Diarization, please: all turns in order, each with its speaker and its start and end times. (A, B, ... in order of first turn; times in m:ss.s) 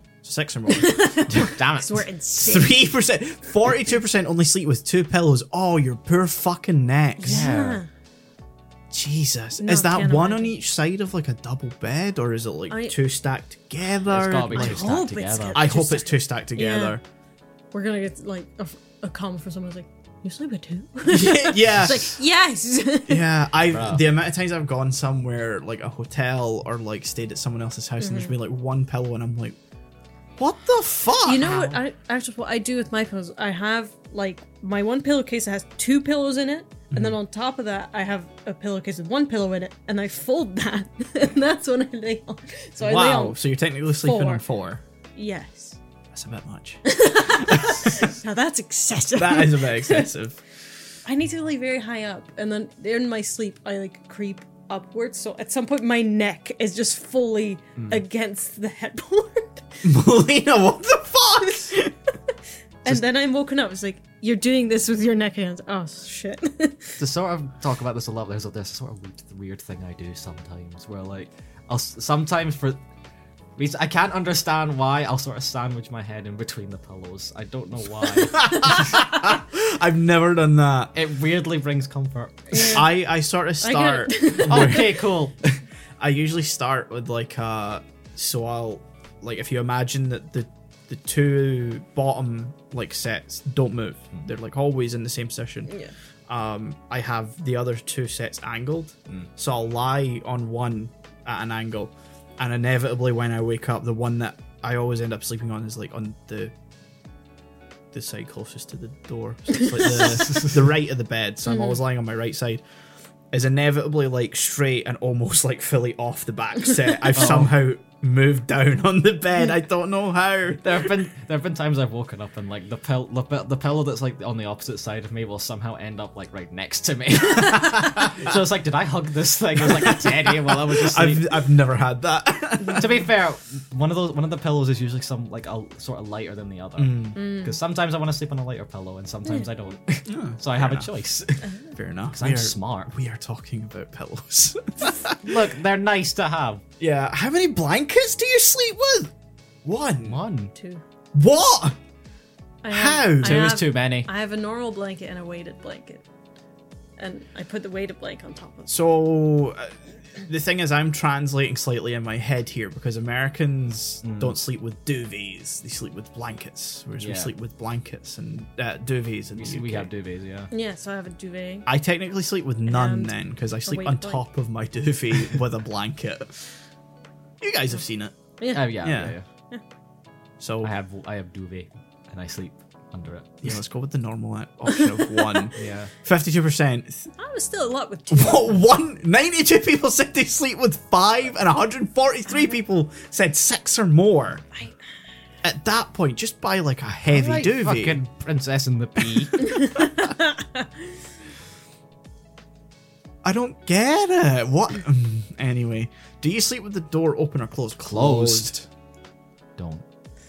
0:00.2-0:01.2 A
0:00.7-0:02.8 B
0:01.3-0:02.1 C
0:02.4-0:07.5 A
0:07.2-0:07.9 B
0:07.2-0:07.8 C
0:08.9-0:14.9 A
0:09.6-0:10.6 B
0:12.7-0:13.0 B
0:14.1-0:15.6 C
0:14.5-0:17.0 B
0:15.5-0:17.0 A
0:17.7-0:23.3 B
0:21.1-0:22.2 A
0:23.1-0:29.6 A
0:23.7-0:24.0 C
0:28.0-0:28.4 B
0:30.4-0:31.8 A
0:31.2-0:43.4 B
0:36.9-0:37.2 A
0:42.8-0:44.8 A
0:44.0-0:44.4 B
0:45.2-0:45.8 B
0:46.1-0:48.1 A
0:46.8-0:50.1 B
0:49.2-0:50.4 A
0:51.0-0:59.8 B
0:59.8-1:01.9 A
1:01.4-1:01.7 B
1:02.8-1:07.0 B
1:07.0-1:12.8 C
1:13.6-1:18.9 C
1:18.3-1:20.9 A
1:21.0-1:22.8 C
1:22.5-1:22.9 B
1:22.6-1:25.1 A
1:23.6-1:25.0 B
1:24.4-1:25.6 C
1:26.0-1:35.7 A
1:35.7-1:35.9 B
1:36.3-1:46.5 A
1:47.9-1:52.6 A
1:49.6-1:50.0 B
1:50.2-1:50.5 C
1:51.5-1:51.8 B
1:53.3-2:01.0 A
1:57.1-1:57.5 C
2:00.6-2:11.4 C
2:07.5-2:08.1 A
2:09.6-2:13.0 A
2:12.8-2:21.5 C
2:16.8-2:17.2 A
2:17.2-2:17.6 B
2:20.1-2:20.9 A
2:21.8-2:25.3 A
2:22.1-2:22.9 C
2:25.2-2:26.6 C
2:26.8-2:29.1 A
2:29.6-2:30.2 A
2:30.0-2:30.5 C
2:30.6-2:30.8 B
2:31.1-2:31.8 A
2:32.6-2:36.0 B
2:32.7-2:33.6 A
2:33.2-2:34.1 C
2:37.0-2:38.8 B
2:38.7-2:49.9 A
2:44.0-2:44.4 C
2:47.0-2:47.3 C
2:49.4-2:50.5 C
2:50.5-2:51.7 B
2:51.7-2:56.5 A
2:52.7-2:54.2 B
2:57.4-2:58.2 A
2:58.4-2:58.8 B
2:58.5-2:59.2 C
2:58.7-2:59.2 A
3:00.4-3:00.7 A
3:00.6-3:03.6 C
3:03.4-3:07.1 A
3:04.8-3:05.5 B
3:05.6-3:05.9 C
3:07.2-3:08.6 B
3:08.1-3:14.5 A
3:15.4-3:18.0 A
3:17.1-3:19.7 C
3:19.4-3:20.7 B
3:23.2-3:28.7 A
3:27.8-3:28.6 C
3:29.6-3:29.8 C